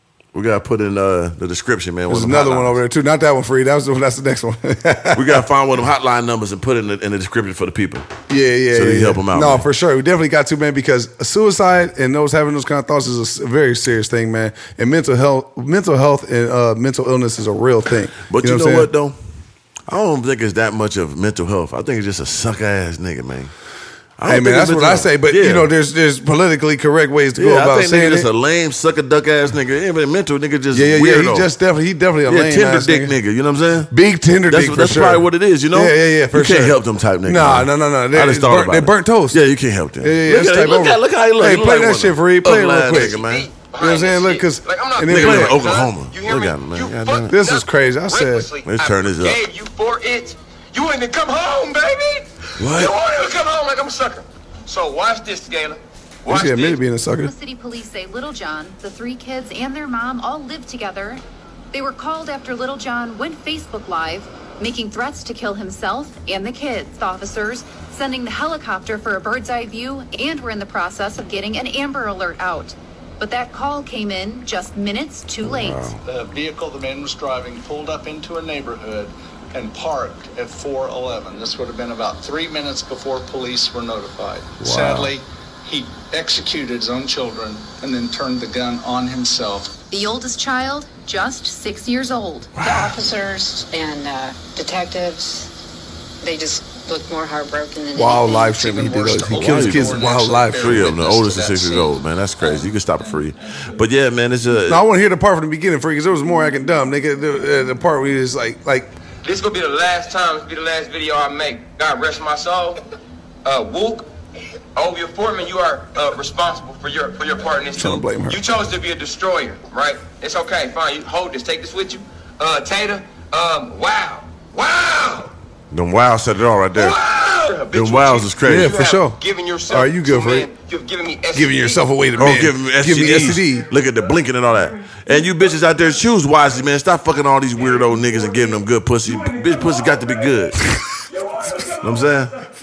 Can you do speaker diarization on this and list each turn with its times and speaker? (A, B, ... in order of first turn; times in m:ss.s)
0:00.3-0:02.8 A
0:02.1-0:05.4 B
0:05.1-0:08.1 A
0:08.3-0:18.9 B
0:08.7-0:09.6 A
0:18.3-0:19.2 A
0:19.9-0:23.5 A
0:24.2-0:25.7 A
0:24.3-0:28.3 B
0:27.4-0:31.5 A
0:30.7-0:33.1 B
0:32.2-0:33.9 A
0:33.9-0:39.4 B
0:34.5-0:43.5 A
0:40.0-0:43.2 B
0:42.9-0:56.8 C
0:43.8-0:45.6 B
0:45.0-0:47.4 A
0:47.3-0:48.5 B
0:48.6-0:49.4 A
0:52.6-0:52.9 A
0:56.3-0:57.3 B
0:57.2-1:01.2 D
1:01.7-1:15.9 D
1:15.4-1:16.0 A
1:16.0-1:29.7 E
1:24.6-1:25.1 A
1:29.9-1:32.6 D
1:32.5-1:33.0 A
1:32.6-1:35.5 F
1:36.2-1:38.6 F
1:37.9-1:40.9 B
1:38.5-1:41.9 E
1:39.3-1:40.0 A
1:40.6-1:44.8 A
1:44.6-1:48.9 B
1:49.2-1:52.8 C
1:53.4-1:54.1 C
1:54.7-2:05.3 C
1:57.7-1:58.4 B
2:05.7-2:07.0 A
2:06.7-2:11.8 C
2:07.7-2:08.8 A
2:08.4-2:09.2 B
2:09.7-2:10.5 B
2:11.3-2:13.7 B
2:12.2-2:20.6 A
2:21.8-2:22.3 A